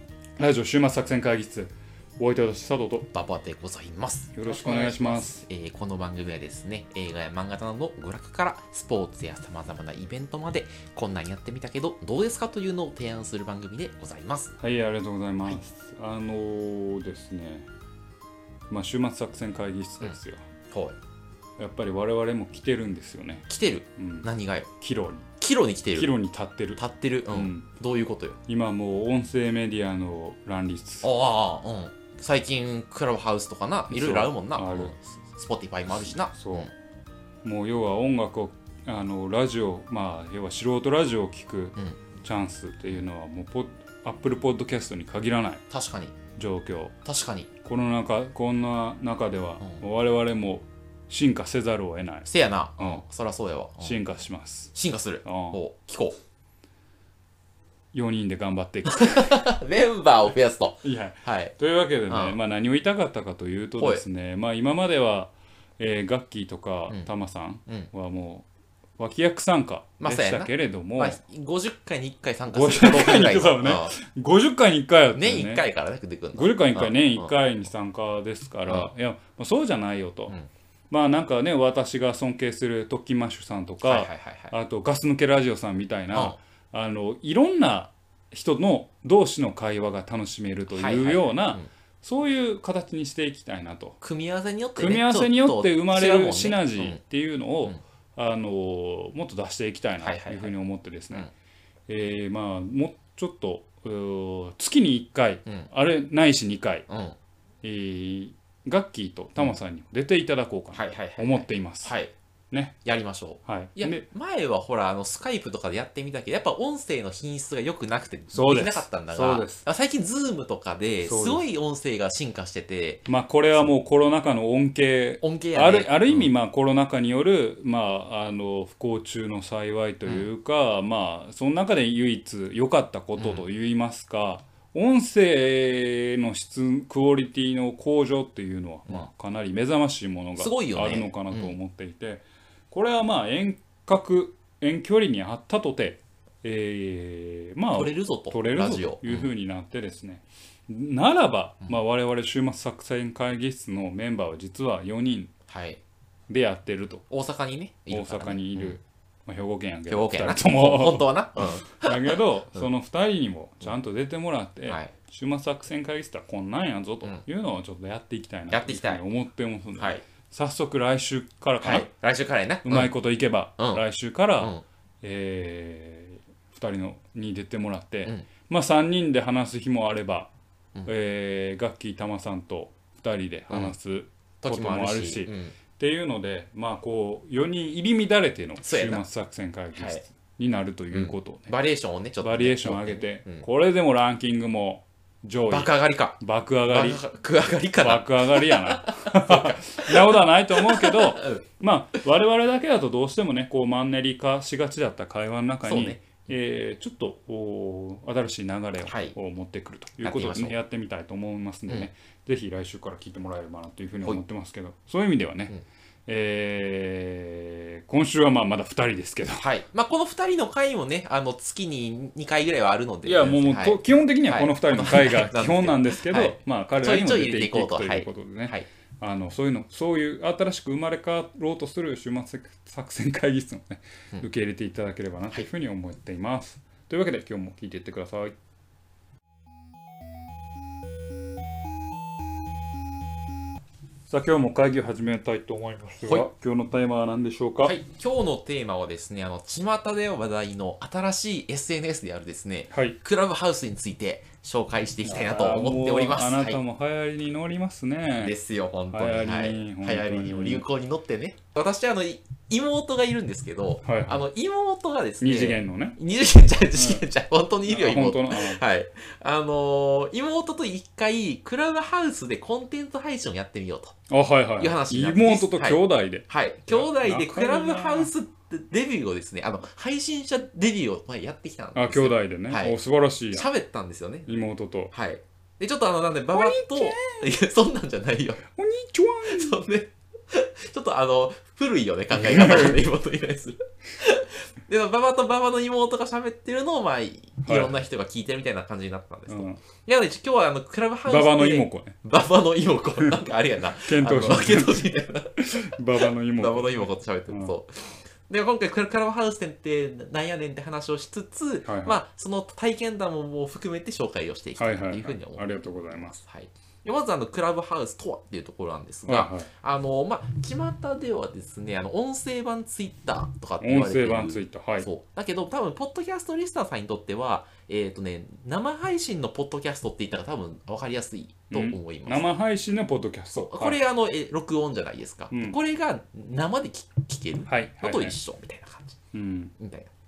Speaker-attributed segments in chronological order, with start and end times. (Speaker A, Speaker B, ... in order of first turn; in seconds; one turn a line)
Speaker A: 0.4-3.1
Speaker B: 3.1-14.6
Speaker A: 4.3-5.4
Speaker A: 14.6-17.7
Speaker A: 18.7-20.4
Speaker A: 21.6-24.3
Speaker B: 23.5-24.7
Speaker A: 24.8-25.3
Speaker B: 25.4-26.1
Speaker A: 25.9-26.8
Speaker B: 26.8-28.4
Speaker A: 27.3-27.7
Speaker A: 28.5-31.1
Speaker B: 31.0-36.7
Speaker A: 33.9-34.9
Speaker A: 36.3-36.7
Speaker A: 37.4-45.6
Speaker B: 41.8-42.0
Speaker B: 45.7-46.1
Speaker A: 46.4-46.9
Speaker B: 47.0-47.5
Speaker A: 47.6-52.3
Speaker B: 52.2-54.0
Speaker A: 53.8-54.7
Speaker B: 54.7-56.1
Speaker A: 55.2-55.6
Speaker A: 57.9-59.5
Speaker B: 58.8-61.5
Speaker A: 60.8-68.5
Speaker B: 62.1-62.4
Speaker B: 63.8-64.0
Speaker B: 67.7-67.9
Speaker A: 69.0-71.2
Speaker B: 70.0-74.0
Speaker A: 72.5-75.6
Speaker B: 75.1-77.3
Speaker A: 76.3-80.3
Speaker B: 78.7-78.9
Speaker A: 80.9-94.0
Speaker B: 83.8-84.5
Speaker B: 86.1-86.4
Speaker B: 90.7-91.7
Speaker B: 94.0-97.0
Speaker A: 94.8-101.3
Speaker B: 100.0-100.5
Speaker A: 101.9-106.9
Speaker B: 106.9-107.2
Speaker A: 107.6-111.9
Speaker B: 110.7-112.1
Speaker A: 112.5-112.8
Speaker B: 112.8-123.1
Speaker A: 113.5-114.0
Speaker A: 118.3-119.6
Speaker A: 121.0-121.4
Speaker A: 123.1-155.3
Speaker B: 125.2-126.3
Speaker B: 133.2-133.4
Speaker B: 140.4-141.6
Speaker B: 147.7-149.3
Speaker B: 155.5-155.8
Speaker A: 156.3-157.1
Speaker B: 157.1-158.8
Speaker A: 157.9-171.9
Speaker B: 159.9-162.7
Speaker B: 168.5-169.0
Speaker B: 169.8-170.0
Speaker B: 171.6-172.9
Speaker A: 172.6-180.3
Speaker B: 173.6-173.8
Speaker B: 174.4-174.6
Speaker A: 180.9-191.5
Speaker B: 183.5-183.8
Speaker B: 184.4-185.6
Speaker B: 188.6-189.0
Speaker B: 189.8-190.0
Speaker B: 190.9-193.4
Speaker A: 192.2-197.0
Speaker B: 195.5-201.4
Speaker A: 197.8-215.5
Speaker B: 205.6-206.2
Speaker B: 208.8-209.1
Speaker B: 210.0-210.6
Speaker A: 216.1-219.5
Speaker B: 219.4-228.7
Speaker A: 223.0-238.3
Speaker A: 244.1-247.8
Speaker B: 247.6-256.6
Speaker A: 252.7-253.0
Speaker A: 255.0-258.3
Speaker B: 258.2-274.0
Speaker A: 258.9-260.6
Speaker A: 263.8-264.3
Speaker A: 265.2-266.0
Speaker A: 266.7-267.0
Speaker A: 267.6-268.6
Speaker A: 274.1-278.1
Speaker B: 274.6-282.8
Speaker A: 281.8-283.5
Speaker B: 283.3-284.2
Speaker A: 284.2-284.9
Speaker B: 284.9-288.4
Speaker A: 286.3-287.2
Speaker A: 288.5-289.6
Speaker B: 289.2-332.4
Speaker A: 292.1-292.8
Speaker A: 297.4-297.8
Speaker A: 299.3-299.6
Speaker A: 301.1-301.9
Speaker A: 303.8-307.5
Speaker A: 311.6-311.9
Speaker A: 314.6-316.2
Speaker A: 319.1-319.5
Speaker A: 323.6-324.9
Speaker A: 331.5-333.8
Speaker B: 333.3-339.0
Speaker A: 335.3-335.6
Speaker A: 337.5-338.1
Speaker A: 339.1-339.5
Speaker B: 339.6-339.9